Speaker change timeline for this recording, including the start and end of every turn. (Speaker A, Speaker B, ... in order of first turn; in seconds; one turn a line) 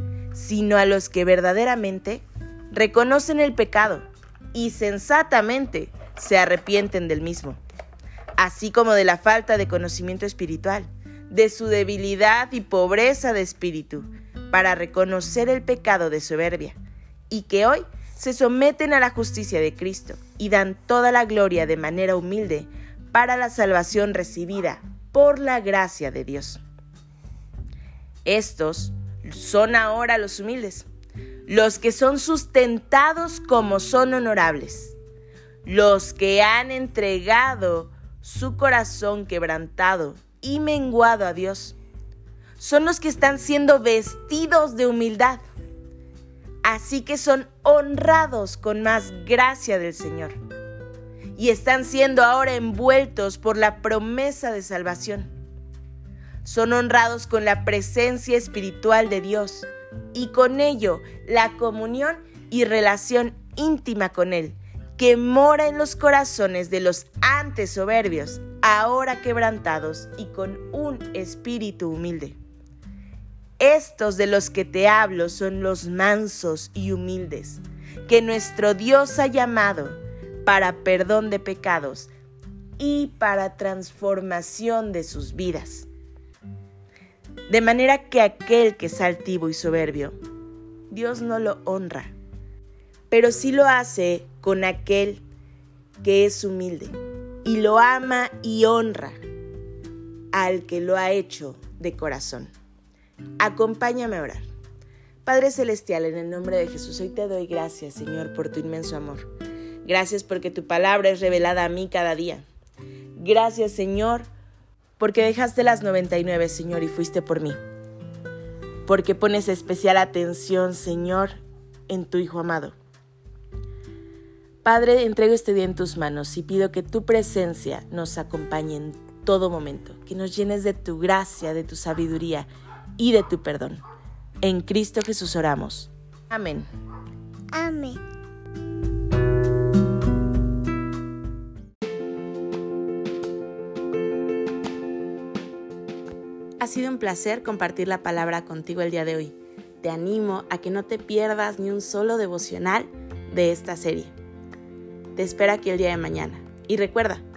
Speaker A: 0.3-7.6
Speaker A: 8.4-16.8
Speaker A: 17.3-26.6
Speaker A: 28.2-30.9
Speaker A: 31.5-35.0
Speaker A: 35.6-41.8
Speaker A: 42.6-45.4
Speaker A: 46.6-50.3
Speaker A: 51.4-55.3
Speaker A: 56.4-72.4
Speaker A: 73.6-82.1
Speaker A: 82.8-85.9
Speaker A: 87.5-90.2
Speaker A: 90.9-92.1
Speaker A: 93.1-95.2
Speaker A: 96.0-99.2
Speaker A: 100.3-102.5
Speaker A: 103.4-104.4
Speaker A: 105.2-109.3
Speaker A: 109.8-112.4
Speaker A: 113.2-114.3
Speaker A: 115.0-117.6
Speaker A: 118.8-121.3
Speaker A: 121.9-122.8
Speaker A: 124.6-133.8
Speaker A: 134.4-136.7
Speaker A: 146.6-154.1
Speaker A: 155.2-157.2